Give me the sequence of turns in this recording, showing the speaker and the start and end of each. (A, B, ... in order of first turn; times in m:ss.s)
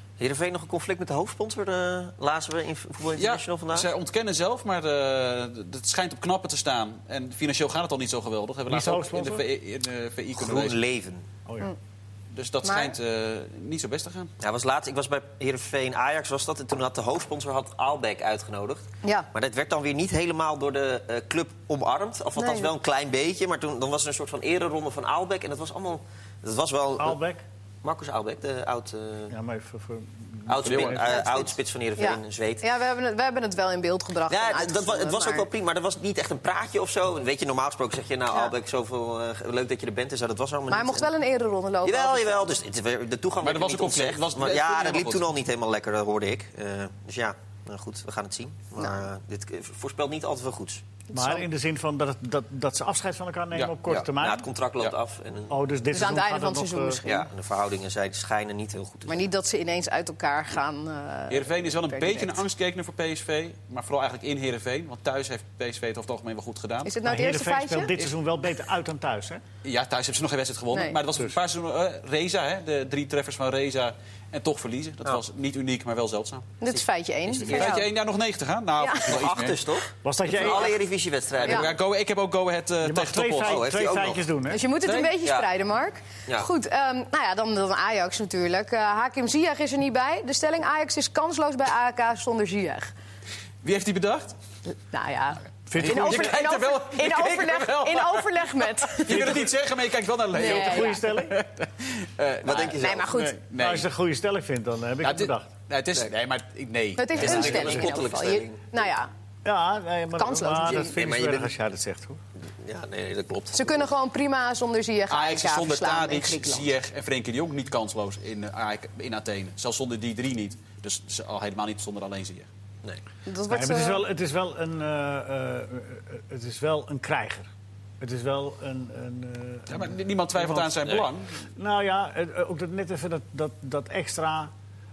0:00.2-0:03.9 A
0:03.2-0:10.8 B
0:08.7-0:09.4 C
0:10.4-0:11.3 A
0:11.4-0:11.7 C
0:12.3-0:14.3 B
0:12.6-0:13.0 D
0:14.4-0:27.2 A
0:19.0-0:19.3 D
0:22.4-0:22.7 D
0:27.0-0:27.4 C
0:27.8-0:29.3 A
0:29.3-0:31.4 C
0:30.5-0:32.6 A
0:30.6-0:31.1 B
0:31.2-0:35.5 D
0:34.3-0:41.1 A
0:40.7-0:42.6 D
0:41.8-0:50.8 A
0:43.4-0:45.3 B
0:48.8-0:49.0 D
0:51.1-0:51.4 D
0:51.1-0:54.5 C
0:53.9-0:55.6 A
0:55.5-0:57.0 C
0:55.9-0:57.3 D
0:57.0-0:59.2 A
0:59.1-1:02.4 D
1:01.3-1:06.9 B
1:06.8-1:07.9 D
1:07.0-1:09.4 C
1:09.6-1:16.5 B
1:10.7-1:11.0 D
1:16.6-1:17.9 D
1:17.3-1:19.6 B
1:17.4-1:17.8 A
1:18.8-1:19.1 D
1:19.0-1:21.7 A
1:20.0-1:20.8 C
1:21.4-1:23.8 B
1:22.8-1:24.6 C
1:23.4-1:24.2 A
1:24.5-1:32.9 D
1:24.8-1:25.1 B
1:25.2-1:25.5 A
1:33.6-1:34.3 B
1:34.9-1:39.5 D
1:35.7-1:36.4 C
1:35.7-1:43.9 B
1:39.1-1:39.4 C
1:40.3-1:41.4 C
1:40.4-1:41.0 D
1:42.4-1:43.1 A
1:42.8-1:43.4 D
1:43.4-1:45.5 C
1:45.0-1:47.7 B
1:47.0-1:49.1 D
1:47.1-1:48.7 A
1:47.2-1:47.7 C
1:49.4-1:52.2 C
1:50.2-1:50.9 D
1:50.6-1:51.5 A
1:52.5-1:53.9 A
1:53.5-1:56.7 D
1:55.1-2:02.5 B
2:03.2-2:04.0 D
2:03.5-2:07.5 C
2:08.0-2:10.9 C
2:09.7-2:11.4 B
2:11.5-2:14.5 C